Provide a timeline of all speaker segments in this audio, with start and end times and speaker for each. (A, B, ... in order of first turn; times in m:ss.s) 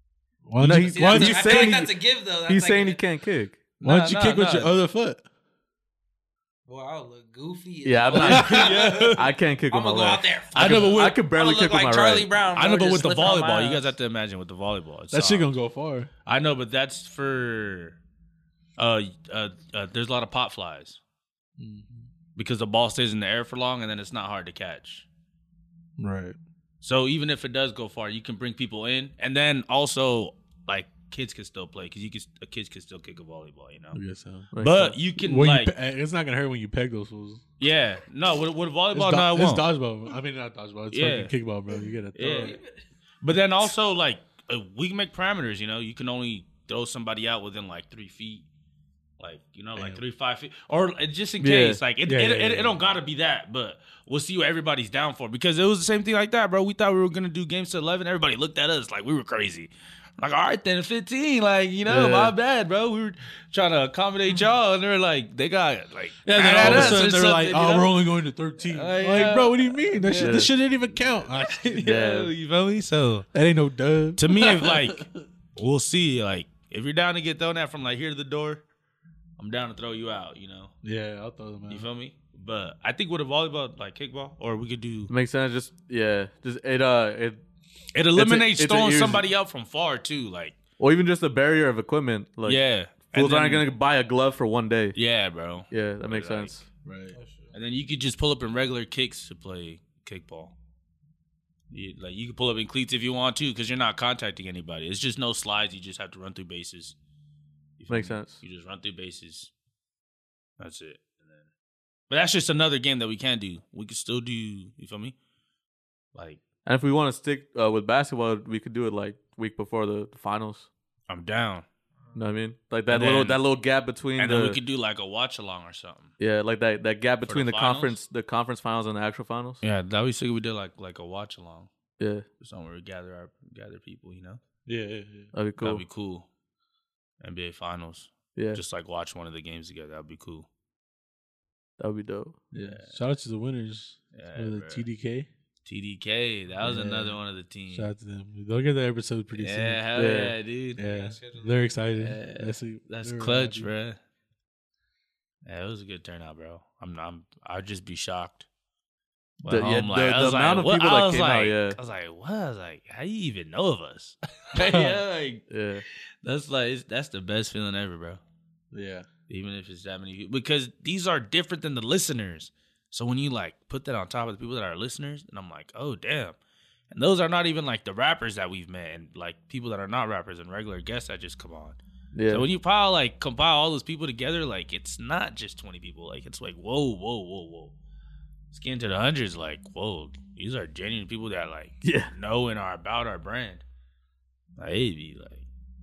0:00.4-0:01.8 A
0:00.6-0:03.6 B
0:00.7-0:03.0 C
0:03.8-0:04.7 D
0:03.8-0:05.2 A
0:06.6-0:13.9 C
0:07.8-0:12.4 B
0:08.1-0:09.3 D
0:10.5-0:11.2 D
0:12.5-0:15.5 D
0:15.1-0:16.1 A
0:16.2-0:18.0 D
0:18.8-0:21.0 D
0:21.6-0:22.1 A
0:22.4-0:25.0 D
0:26.0-0:26.4 A
0:26.8-0:34.0 D
0:33.9-0:34.5 A
0:34.5-0:35.0 B
0:34.6-0:35.7 D
0:35.2-0:37.4 A
0:37.6-0:39.6 D
0:38.9-0:42.6 A
0:40.9-0:41.3 D
0:42.1-0:42.6 D
0:42.4-0:42.8 C
0:43.2-0:48.4 D
0:49.2-1:08.0 D
0:49.8-0:50.0 A
0:51.4-0:51.8 B
0:52.0-0:52.8 A
1:01.9-1:02.2 B
1:06.2-1:11.9 A
1:06.6-1:07.0 B
1:08.6-1:10.5 D
1:10.1-1:10.5 B
1:11.1-1:13.3 D
1:11.8-1:12.3 B
1:13.3-1:15.1 A
1:14.2-1:18.6 D
1:19.4-1:20.7 D
1:20.8-1:21.9 A
1:21.7-1:25.1 D
1:25.1-1:27.4 B
1:27.9-1:30.6 D
1:28.1-1:29.2 B
1:30.8-1:35.0 B
1:32.4-1:33.7 D
1:34.9-1:36.5 D
1:35.7-1:36.6 B
1:36.8-1:37.2 A
1:37.1-1:37.5 C
1:37.5-1:40.5 D
1:41.7-1:47.0 D
1:47.8-1:49.5 D
1:47.9-1:48.4 B
1:50.6-1:51.5 D
1:52.1-1:55.1 D
1:56.1-1:56.4 D
1:56.6-2:00.7 B
2:01.1-2:01.6 D
2:02.1-2:04.6 B
2:02.9-2:03.4 D
2:04.2-2:06.1 D
2:06.2-2:09.6 B
2:07.2-2:08.0 D
2:09.6-2:11.7 D
2:12.0-2:12.2 B
2:12.4-2:14.4 D
2:14.6-2:15.3 A
2:15.3-2:15.8 B
2:15.6-2:16.3 D
2:17.2-2:20.5 D
2:18.4-2:18.6 B
2:21.8-2:22.4 B
2:22.5-2:25.3 A
2:22.6-2:23.0 D
2:24.1-2:24.8 D
2:25.6-2:27.9 D
2:26.6-2:27.2 A
2:27.7-2:29.9 A
2:29.4-2:30.8 D
2:29.9-2:30.4 B
2:30.8-2:33.7 A
2:30.8-2:31.7 C
2:32.0-2:34.0 D
2:35.4-2:38.5 D
2:39.4-2:45.4 D
2:39.5-2:41.8 B
2:45.5-2:45.8 B
2:46.2-2:48.2 D
2:48.7-2:49.1 A
2:49.3-2:56.4 D
2:56.9-3:07.7 D
3:02.1-3:02.5 B
3:08.5-3:13.6 D
3:11.8-3:12.1 B
3:14.6-3:15.5 D